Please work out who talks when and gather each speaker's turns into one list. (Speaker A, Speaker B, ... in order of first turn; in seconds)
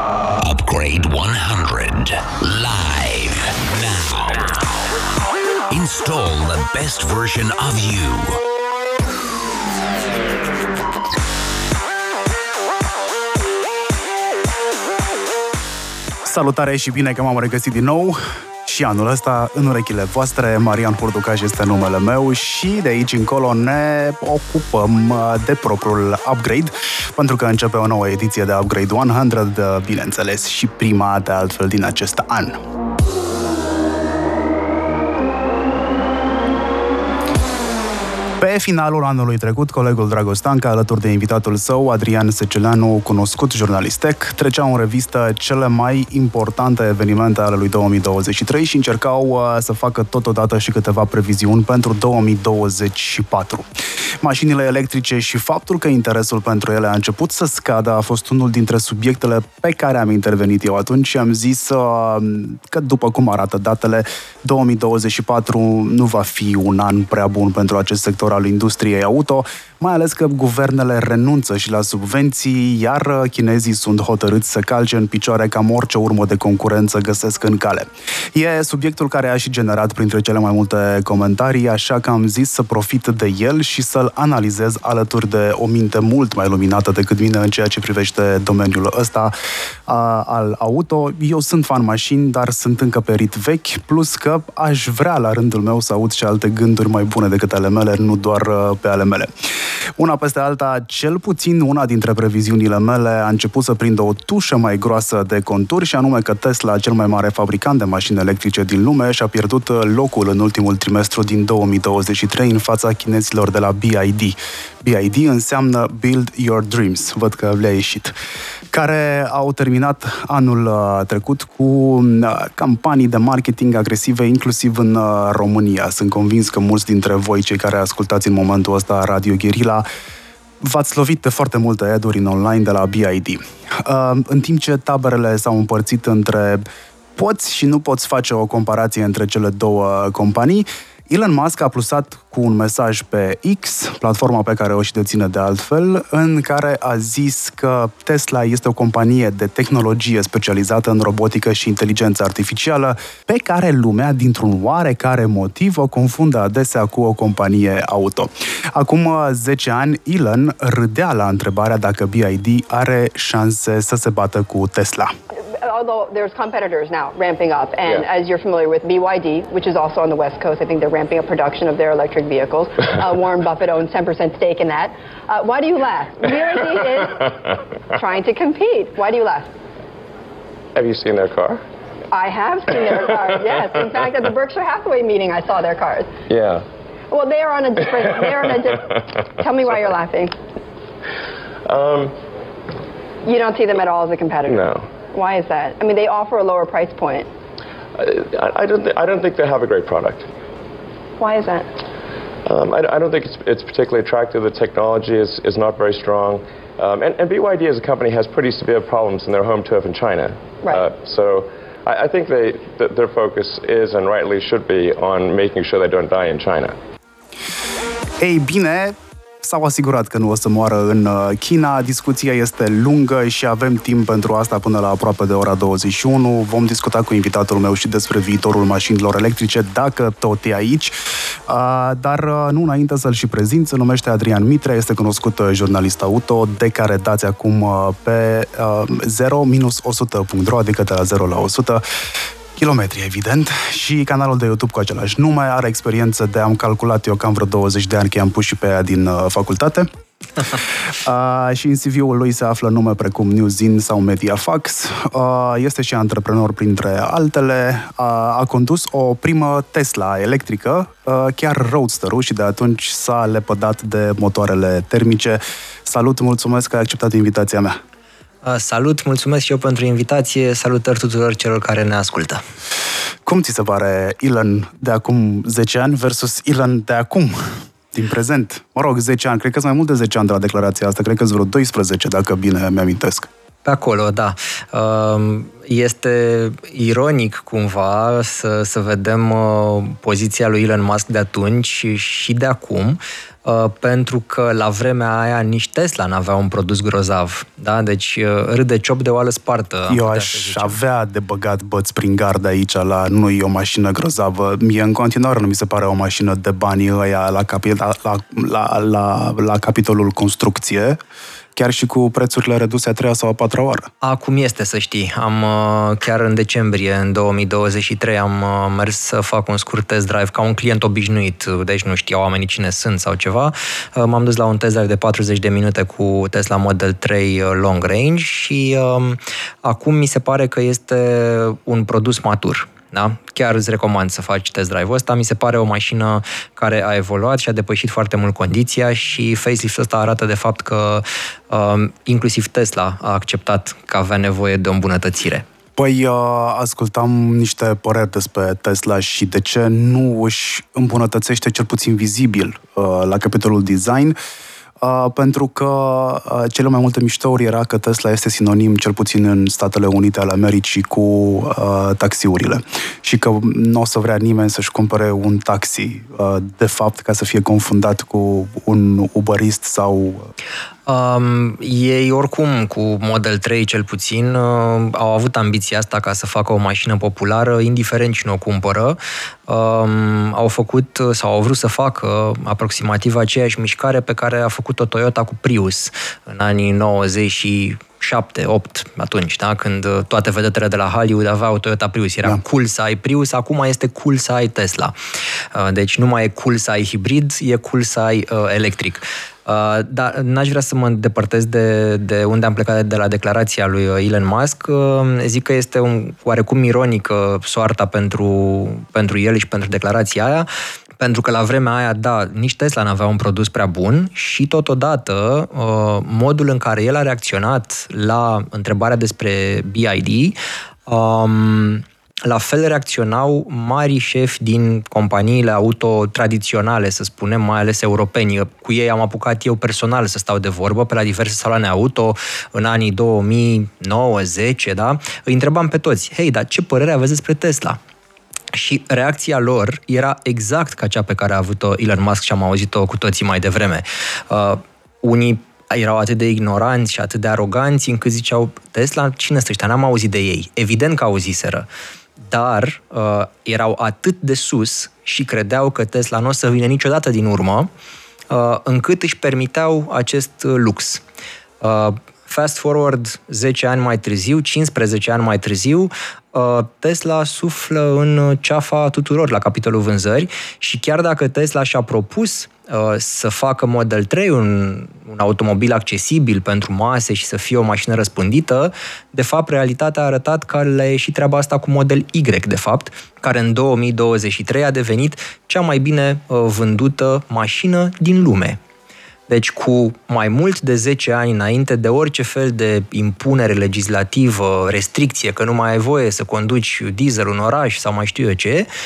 Speaker A: 0.4-4.9, 5.7-8.4
Speaker B: 16.2-32.6, 38.4-53.7, 54.2-89.3, 89.9-99.3, 100.0-118.1, 118.7-129.8, 130.6-136.7, 137.2-165.1, 218.2-230.9, 231.5-241.8, 242.6-249.9, 250.4-267.8, 273.2-283.3, 299.9-311.0, 311.6-313.9, 345.8-354.2, 354.8-370.3
Speaker C: 165.3-179.5, 182.1-186.1, 187.1-190.3, 193.2-197.3, 201.2-201.7
Speaker D: 180.8-181.6, 186.3-186.6, 191.7-192.2, 194.5-194.9, 198.0-200.3, 202.4-216.8
Speaker E: 268.4-272.4, 283.6-300.8, 314.0-345.5, 370.9-394.9, 395.5-410.5, 411.0-437.8, 438.5-451.7, 452.3-457.7, 458.3-461.0, 461.6-488.6, 489.3-498.7